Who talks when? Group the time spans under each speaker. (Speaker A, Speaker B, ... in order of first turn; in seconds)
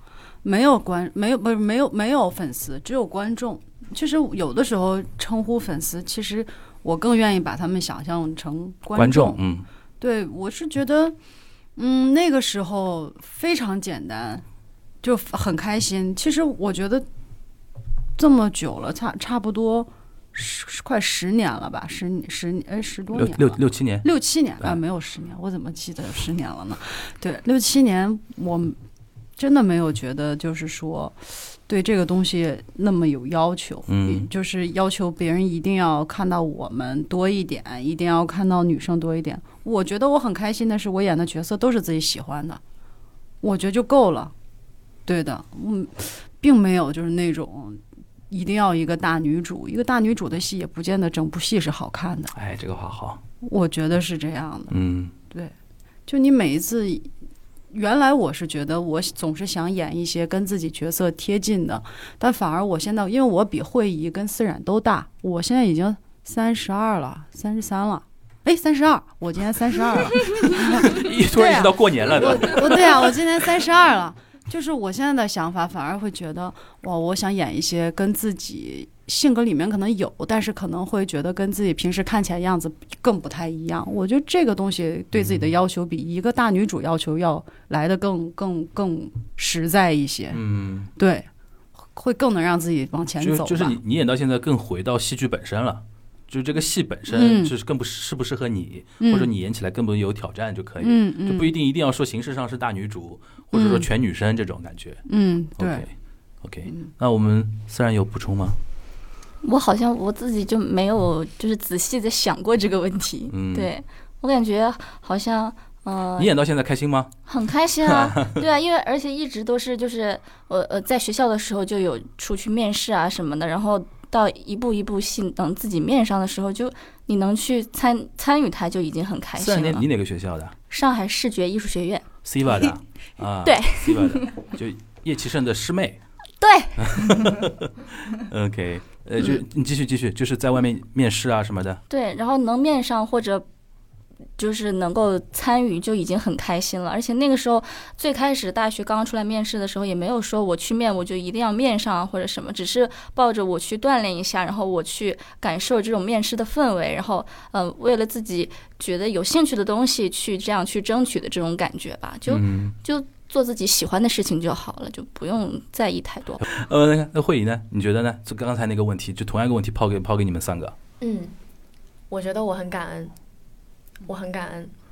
Speaker A: 0.4-9.4, 10.0-11.2, 11.8-14.4, 15.0-17.1, 18.2-28.8, 29.4-42.6, 43.4-44.3, 45.1-52.3, 53.4-54.8, 56.1-57.1, 57.7-90.4, 91.0-91.3, 91.9-93.8, 97.1-97.5, 99.0-99.3, 100.8-101.6, 103.5-103.9, 105.1-105.8
Speaker B: 9.0-9.7, 23.1-24.1, 33.9-34.3, 52.3-53.2, 54.7-55.1, 70.9-73.1, 85.1-85.5, 90.3-90.9, 93.2-105.0, 105.6-105.9, 106.4-108.6, 113.3-113.7, 116.2-117.1, 117.9-118.4, 129.4-130.5, 132.2-136.0, 136.8-141.8, 162.3-162.7, 166.4-170.7
Speaker C: 109.4-116.3, 117.3-129.9, 130.7-132.1, 133.4-134.3, 136.4-137.3, 141.9-143.5, 144.4-166.4
Speaker D: 171.0-171.3, 172.1-173.1, 174.1-174.7